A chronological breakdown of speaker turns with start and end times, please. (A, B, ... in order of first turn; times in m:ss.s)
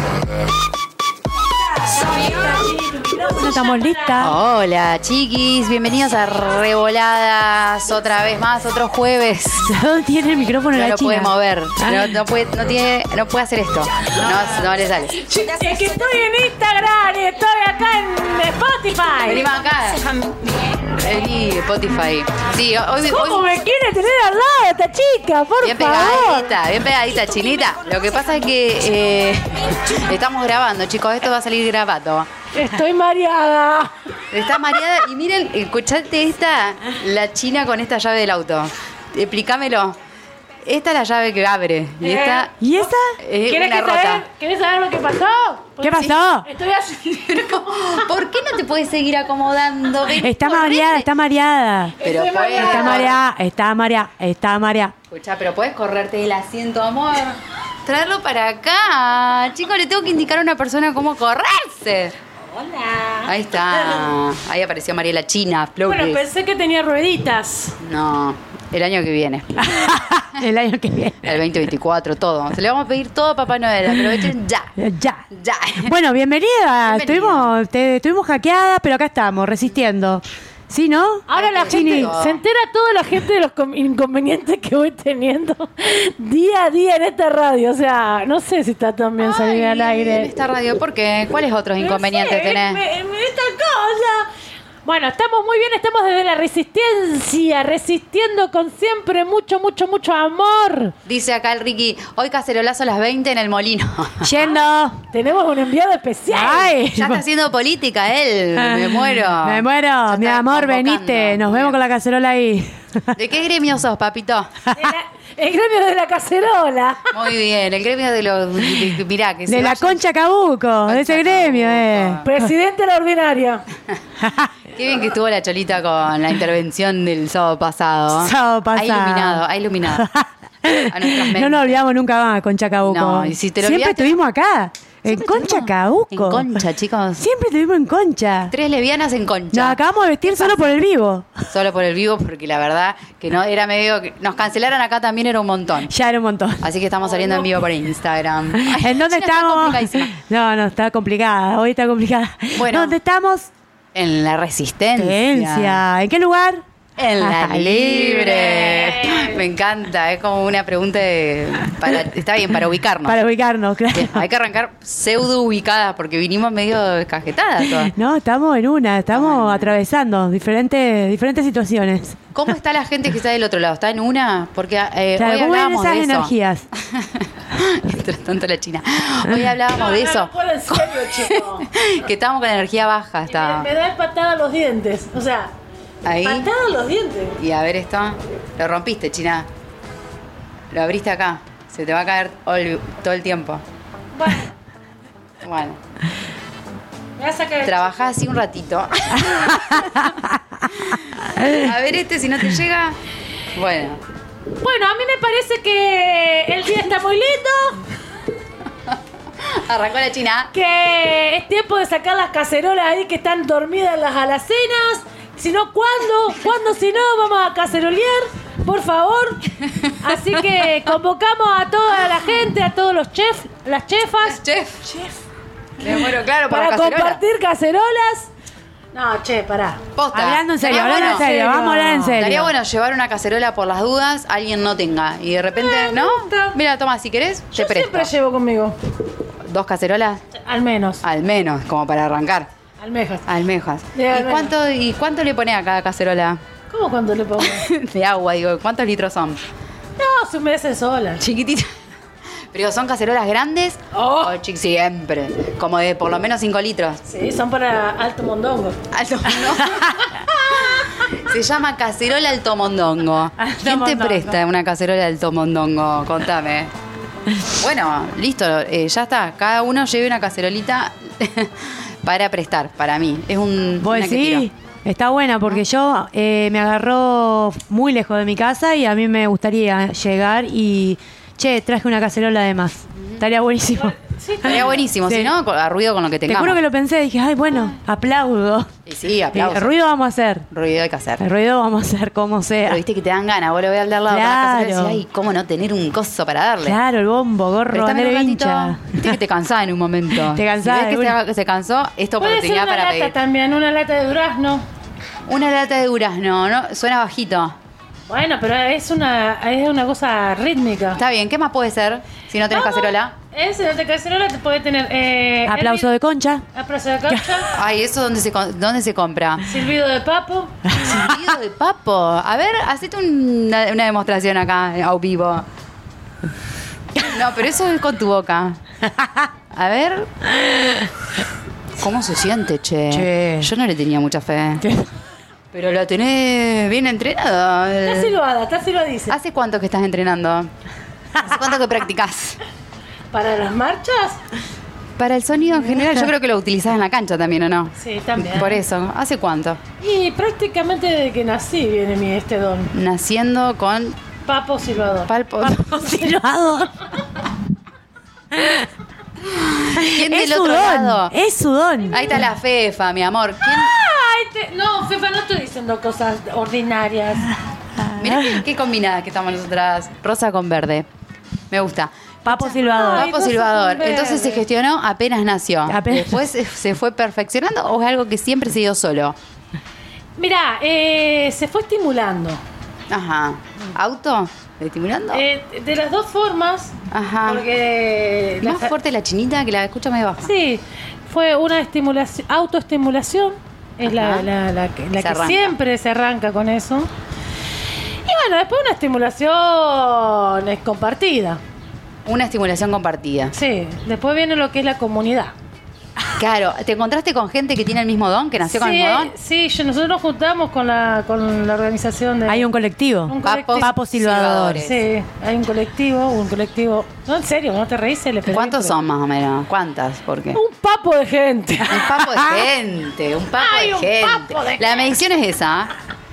0:02.0-0:04.4 A
0:04.2-0:09.7 B
0:09.6-0:12.2 A
0:10.7-0:15.2 B
0:15.2-0:19.5 C
0:19.3-0:20.1 B
0:20.9-0:23.5 B
0:23.1-0:26.6 C
0:25.6-0:32.3 B
0:32.5-0:33.9 C
0:34.3-0:40.0 B
0:40.6-0:42.5 B
0:42.0-0:47.4 C
0:42.6-0:43.2 A
0:43.2-0:44.2 B
0:45.8-0:46.5 A
0:47.2-0:51.1 B
0:50.1-0:52.0 A
0:52.0-0:53.2 C
0:52.0-0:53.2 B
0:52.6-0:54.9 A
0:55.1-1:02.1 B
1:02.5-1:04.1 C
1:03.2-1:06.2 B
1:05.9-1:07.8 C
1:07.8-1:09.7 B
1:09.6-1:11.4 A
1:11.3-1:14.7 B
1:13.9-1:15.2 A
1:15.3-1:16.0 B
1:15.8-1:22.2 A
1:16.8-1:17.5 B
1:21.3-1:30.3 C
1:21.3-1:22.4 B
1:29.2-1:32.8 B
1:31.8-1:34.3 C
1:34.8-1:40.9 C
1:41.0-1:44.3 B
1:44.2-1:45.0 A
1:45.1-1:46.8 C
1:46.3-1:47.2 A
1:47.0-1:51.8 B
1:48.6-1:53.1 A
1:53.2-1:54.5 B
1:54.7-1:57.2 C
1:57.1-2:00.0 B
1:59.5-2:02.5 A
2:00.9-2:02.3 B
2:02.2-2:03.6 C
2:04.2-2:04.5 A
2:04.7-2:10.0 B
2:08.1-2:16.5 A
2:10.9-2:11.8 B
2:12.8-2:14.2 B
2:15.0-2:17.3 B
2:17.2-2:18.5 A
2:18.5-2:20.7 B
2:19.5-2:21.4 A
2:21.5-2:25.9 B
2:25.9-2:26.7 A
2:26.6-2:30.1 B
2:28.5-2:33.5 A
2:32.6-2:33.0 B
2:34.0-2:35.8 B
2:35.0-2:36.6 A
2:37.0-2:43.2 B
2:37.2-2:38.4 A
2:38.3-2:39.4 C
2:43.0-2:44.2 A
2:43.9-2:47.9 B
2:47.6-2:52.2 A
2:49.1-2:49.8 B
2:52.3-3:03.7 B
2:55.2-2:56.7 A
2:59.7-3:01.7 C
3:03.3-3:05.5 C
3:06.0-3:06.5 B
3:06.2-3:07.4 C
3:07.4-3:09.5 B
3:10.7-3:13.6 B
3:14.1-3:14.5 C
3:15.4-3:15.8 B
3:17.2-3:18.1 C
3:17.6-3:20.1 B
3:20.7-3:23.0 B
3:23.6-3:24.0 B
3:24.6-3:27.8 C
3:28.9-3:30.5 B
3:30.5-3:44.4 C
3:39.8-3:40.4 B
3:44.2-3:44.8 B
3:45.8-3:47.2 B
3:46.5-3:48.3 C
3:48.9-3:49.8 C
3:50.0-3:51.3 B
3:50.1-3:52.5 A
3:50.7-3:52.2 C
3:51.8-3:58.1 B
3:55.6-3:56.6 C
3:57.6-3:58.8 C
3:59.4-4:00.2 B
4:00.4-4:01.0 C
4:01.0-4:02.5 B
4:02.8-4:03.3 C
4:03.3-4:06.4 B
4:03.9-4:04.5 C
4:06.7-4:07.7 C
4:07.4-4:09.4 B
4:10.0-4:11.2 C
4:11.2-4:11.7 B
4:12.5-4:17.0 B
4:13.9-4:14.4 C
4:17.0-4:18.8 C
4:18.9-4:26.7 B
4:23.4-4:24.4 A
4:27.5-4:34.5 B
4:33.8-4:45.3 A
4:43.0-4:43.2 B
4:44.0-4:44.8 C
4:44.4-4:46.6 B
4:46.3-4:48.7 A
4:48.9-4:49.8 B
4:49.3-4:50.4 A
4:50.5-4:51.2 B
4:51.2-4:52.8 A
4:52.7-4:56.8 B
4:54.1-4:55.0 A
4:56.6-4:59.1 A
4:57.7-5:03.1 B
5:00.2-5:01.2 A
5:02.2-5:04.6 C
5:05.3-5:07.6 B
5:08.1-5:11.0 C
5:11.0-5:13.2 B
5:12.5-5:15.9 C
5:15.5-5:16.4 A
5:16.5-5:17.5 C
5:17.5-5:19.4 B
5:19.4-5:20.5 C
5:20.8-5:25.5 B
5:27.0-5:28.6 B
5:29.5-5:30.1 B
5:31.8-5:34.6 B
5:32.9-5:33.5 A
5:35.5-5:38.2 B
5:37.8-5:39.2 C
5:39.1-5:40.5 B
5:41.2-5:42.4 B
5:43.1-5:44.2 C
5:45.0-5:49.6 B
5:47.8-5:48.6 C
5:49.8-5:52.7 C
5:52.7-5:54.0 B
5:54.2-5:56.2 C
5:55.1-5:55.7 B
5:55.7-5:56.7 A
5:58.3-5:58.7 A
5:59.2-6:01.2 B
5:59.8-6:02.2 A
6:01.9-6:03.7 B
6:03.4-6:07.3 C
6:07.8-6:08.4 A
6:08.0-6:10.9 B
6:11.5-6:11.9 B
6:12.3-6:13.2 A
6:12.3-6:14.4 C
6:12.9-6:19.2 B
6:15.7-6:16.3 A
6:20.2-6:22.4 C
6:22.9-6:25.2 B
6:25.1-6:28.7 C
6:26.9-6:27.5 B
6:28.4-6:30.3 B
6:30.2-6:36.9 C
6:33.8-6:34.3 B
6:35.0-6:35.6 B
6:38.1-6:41.4 C
6:42.1-6:43.3 B
6:43.3-6:45.3 C
6:46.2-6:49.1 B
6:48.5-6:52.5 C
6:52.3-6:54.6 A
6:53.1-6:53.7 C
6:53.2-6:54.8 B
6:54.6-6:58.8 C
6:58.3-7:00.4 B
7:00.3-7:01.9 C
7:01.7-7:05.7 B
7:01.8-7:02.4 A
7:03.4-7:04.9 C